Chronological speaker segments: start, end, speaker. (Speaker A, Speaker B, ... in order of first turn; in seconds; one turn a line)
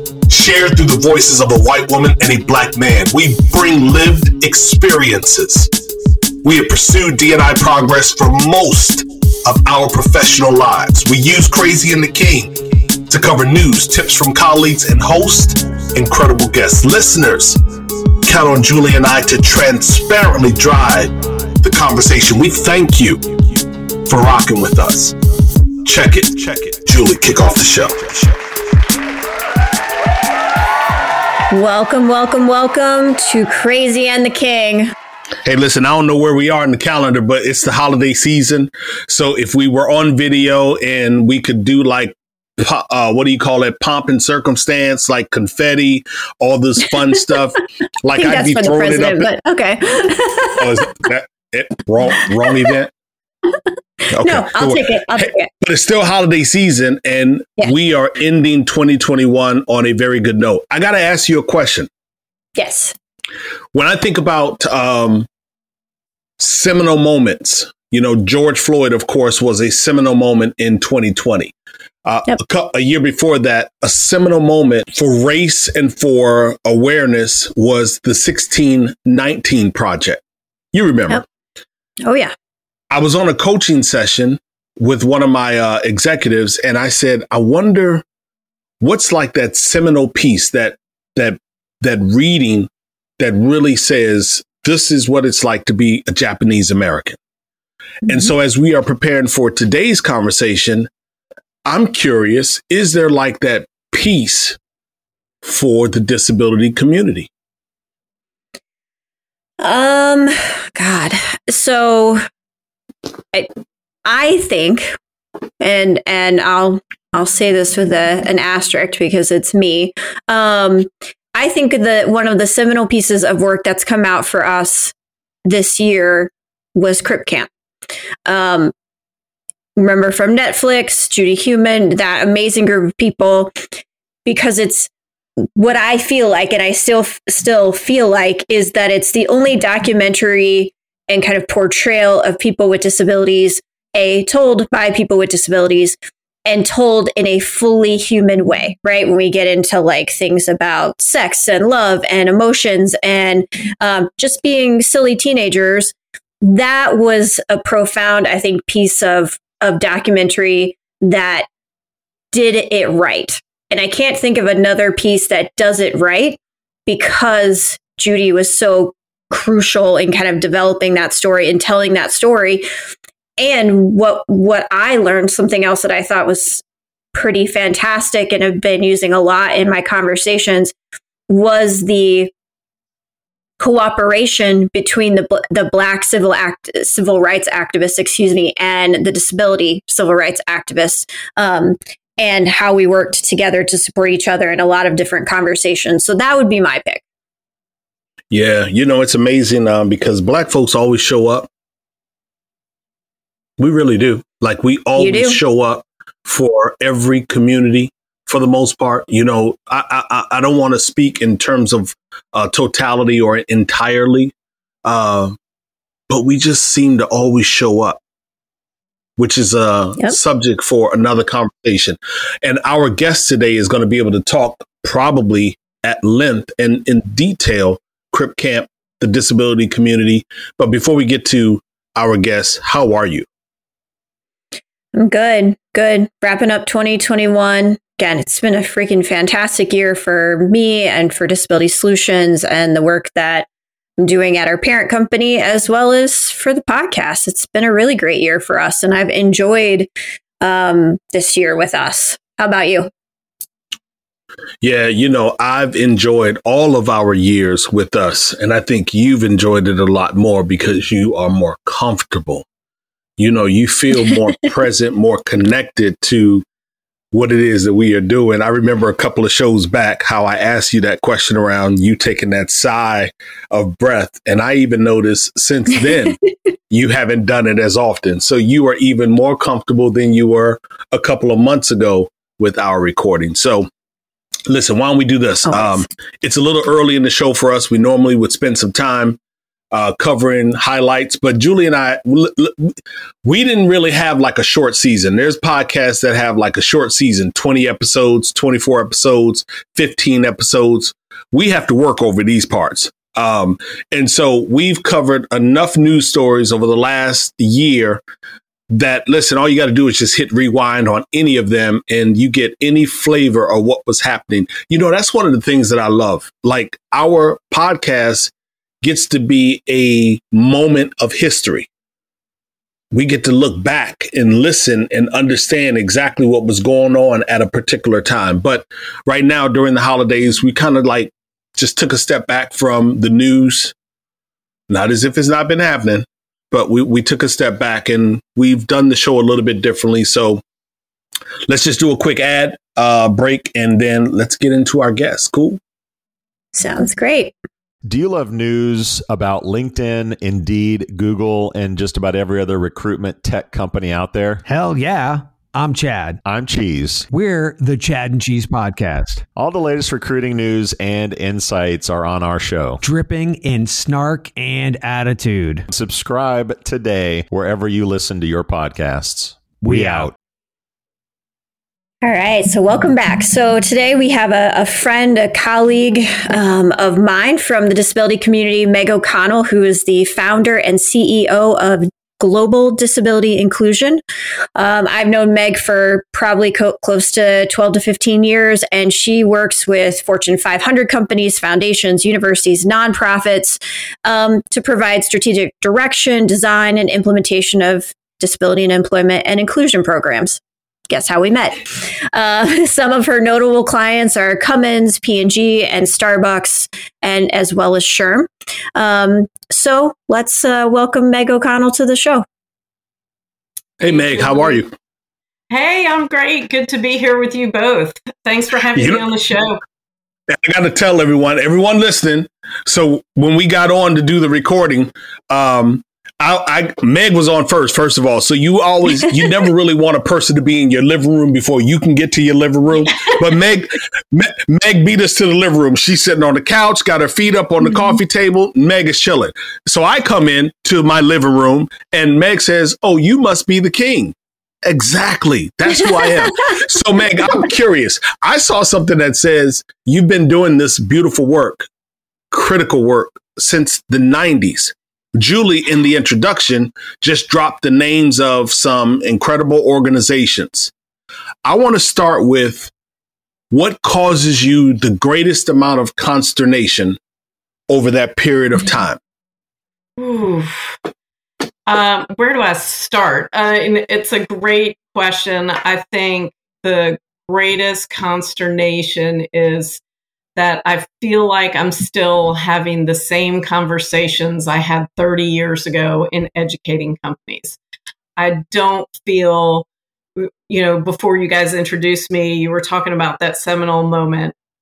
Speaker A: 0.3-5.7
Speaker A: 6.4-17.6
Speaker A: 18.2-25.1
Speaker A: 25.8-28.3
Speaker B: 31.5-34.9
Speaker A: 35.4-49.3
Speaker B: 48.1-50.9
Speaker A: 50.6-52.9
Speaker A: 54.1-61.9
Speaker B: 54.2-55.5
Speaker B: 62.5-62.9
Speaker A: 63.7-65.3
Speaker A: 66.4-71.5
Speaker A: 72.0-80.2
Speaker A: 80.7-81.2
Speaker B: 82.0-82.3
Speaker A: 82.9-88.0
Speaker A: 88.8-97.2
Speaker A: 98.0-100.9
Speaker A: 101.7-104.6
Speaker A: 105.4-107.3
Speaker B: 109.6-112.2
Speaker B: 114.0-115.0
Speaker B: 115.6-124.9
Speaker B: 125.5-127.5
Speaker B: 128.2-128.7
Speaker B: 129.8-133.5
Speaker B: 134.2-134.9
Speaker B: 135.5-161.5
Speaker B: 162.3-172.7
Speaker B: 173.4-176.6
Speaker B: 177.1-180.7
Speaker B: 181.3-182.3
Speaker B: 183.6-197.0
Speaker A: 198.3-201.5
Speaker A: 203.6-214.3
Speaker B: 204.9-205.4
Speaker A: 214.8-215.3
Speaker A: 216.1-218.0
Speaker A: 219.2-233.2
Speaker B: 234.9-243.5
Speaker B: 244.0-249.9
Speaker B: 250.4-252.9
Speaker A: 254.6-262.4
Speaker A: 263.2-266.4
Speaker A: 267.1-276.2
Speaker A: 276.7-283.7
Speaker A: 284.5-289.2
Speaker B: 285.4-285.8
Speaker A: 289.7-308.0
Speaker A: 308.7-318.3
Speaker A: 318.8-321.7
Speaker A: 322.9-333.7
Speaker A: 334.7-340.4
Speaker A: 341.5-345.6
Speaker B: 346.5-347.3
Speaker C: 347.8-354.4
Speaker D: 354.4-356.2
Speaker C: 356.2-357.1
Speaker D: 357.1-359.2
Speaker C: 359.3-362.8
Speaker D: 362.8-365.6
Speaker C: 365.7-370.1
Speaker D: 369.6-370.1
Speaker B: 372.0-384.0
Speaker B: 384.5-412.2
Speaker A: 413.8-414.7
Speaker E: 413.8-414.6
Speaker E: 415.5-419.6
Speaker A: 418.8-419.0
Speaker A: 420.3-444.1
Speaker A: 444.6-451.7
Speaker A: 452.3-460.7
Speaker A: 461.4-462.7
Speaker A: 463.5-467.0
Speaker A: 467.7-469.0
Speaker E: 470.0-470.8
Speaker E: 471.6-479.8
Speaker E: 480.4-487.6
Speaker E: 488.2-489.6
Speaker E: 490.2-494.3